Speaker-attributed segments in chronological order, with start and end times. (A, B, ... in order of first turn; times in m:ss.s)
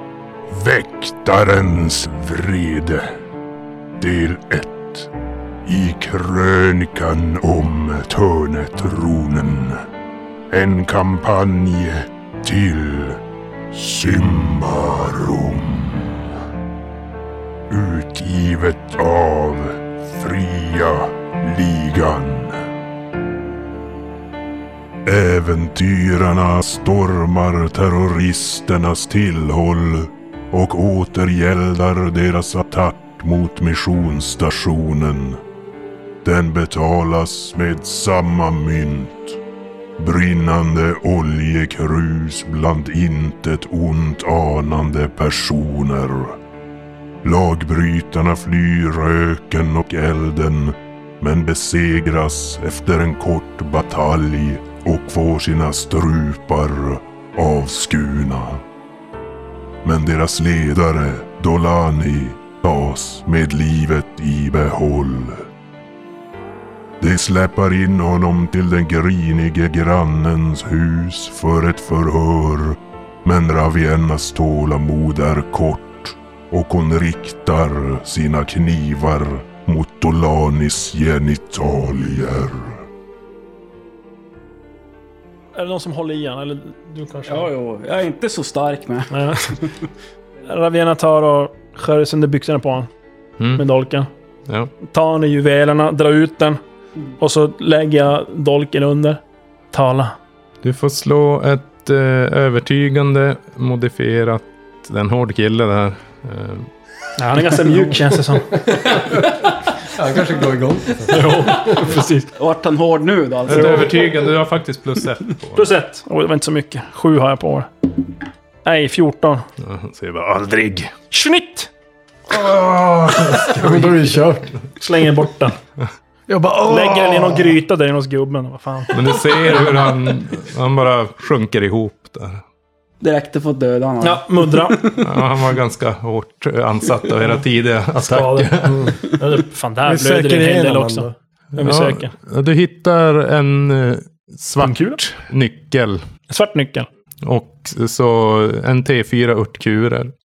0:00.5-0:03.1 A
0:04.0-0:05.1 A
0:05.7-0:09.8 A
0:10.5-0:13.2 A
0:13.7-0:16.3 A
0:17.7-0:22.6 A
0:25.0-0:35.4 A
0:36.2-0:39.4 A
0:40.0-0:46.4 A
0:47.2-0:58.6 A
0:59.8-1:05.5 A
1:07.0-1:22.9 A
1:25.5-1:27.5 B
1:27.3-1:29.7 C
1:29.1-1:29.6 B
1:30.5-1:32.9 B
1:33.4-1:33.6 D
1:33.5-1:34.1 B
1:34.8-1:36.6 B
1:37.2-1:39.2 B
1:39.7-1:40.2 B
1:40.6-1:46.7 D
1:47.2-1:48.6 B
1:48.6-1:49.3 E
1:49.9-1:51.8 E
1:51.1-1:52.3 B
1:52.4-1:54.3 C
1:53.5-1:55.7 D
1:55.6-1:58.0 B
1:58.6-1:59.4 B
1:59.6-2:00.9 D
2:01.1-2:01.7 B
2:02.3-2:04.5 E
2:03.4-2:03.9 D
2:04.8-2:05.6 B
2:06.3-2:07.6 E
2:06.6-2:09.9 B
2:08.9-2:12.4 D
2:13.0-2:15.3 C
2:14.0-2:14.9 B
2:15.0-2:18.9 D
2:18.0-2:22.1 B
2:19.8-2:21.1 E
2:21.6-2:26.0 D
2:24.6-2:25.0 B
2:26.3-2:26.9 B
2:27.2-2:30.1 D